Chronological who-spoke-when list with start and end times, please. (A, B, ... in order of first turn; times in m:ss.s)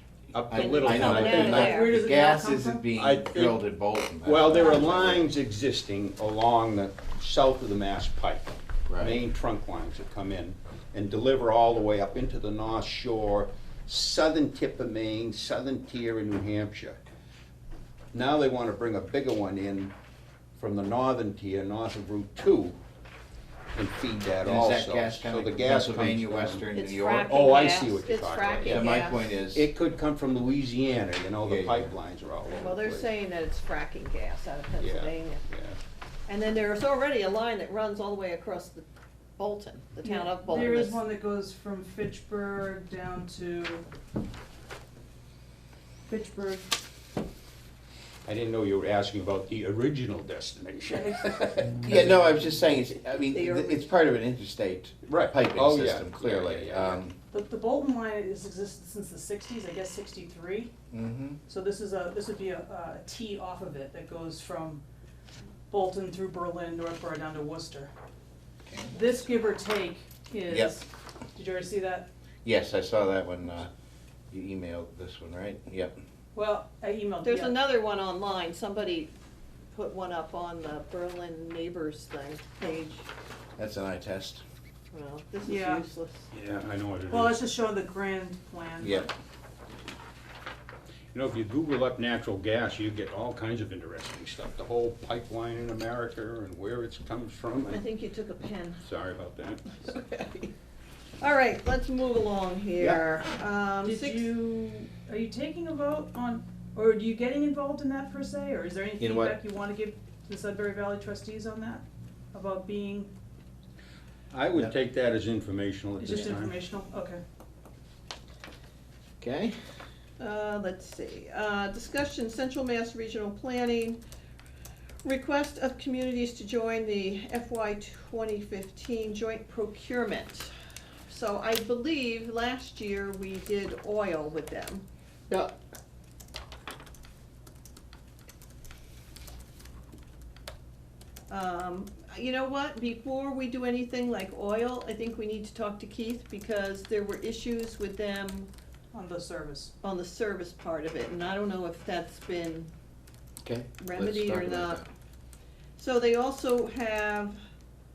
0:00.3-0:01.8 A
0:00.5-0:05.3 B
0:00.6-0:02.0 C
0:00.9-0:02.8 D
0:03.0-0:03.6 A
0:04.2-0:17.0 A
0:08.9-0:09.2 B
0:18.1-0:19.9 A
0:20.6-0:22.8 A
0:23.7-0:29.0 A
0:24.4-0:27.4 B
0:26.7-0:29.4 C
0:28.6-0:29.7 B
0:29.5-0:33.1 A
0:31.4-0:31.9 B
0:32.5-0:35.4 C
0:34.8-0:35.8 A
0:36.3-0:41.0 C
0:40.0-0:43.9 D
0:46.1-0:46.7 D
0:48.3-0:52.0 A
0:50.9-0:51.8 D
0:51.8-0:57.2 B
0:53.3-0:53.9 C
0:55.1-0:57.0 A
0:57.3-1:00.7 D
1:00.9-1:01.4 B
1:01.5-1:04.8 D
1:05.7-1:07.9 D
1:08.7-1:08.9 B
1:08.9-1:12.1 D
1:10.5-1:10.7 B
1:12.4-1:13.7 B
1:14.3-1:15.9 B
1:16.3-1:17.6 D
1:17.2-1:19.1 C
1:19.7-1:23.1 C
1:23.6-1:24.4 B
1:24.9-1:26.3 C
1:25.4-1:25.9 D
1:26.3-1:27.4 A
1:27.1-1:29.1 D
1:28.8-1:29.1 B
1:31.1-1:37.8 A
1:37.7-1:38.8 C
1:38.8-1:39.7 A
1:39.7-1:40.5 C
1:41.2-1:44.3 C
1:42.8-1:43.0 B
1:43.8-1:53.1 D
1:49.0-1:49.4 B
1:54.3-1:56.6 A
1:56.0-1:57.2 D
1:59.2-1:59.6 B
2:00.2-2:04.0 C
2:05.0-2:10.5 C
2:11.1-2:15.5 C
2:21.3-2:28.5 C
2:28.9-2:29.7 D
2:29.8-2:32.7 C
2:33.4-2:34.9 B
2:33.8-2:34.8 C
2:35.8-2:37.4 C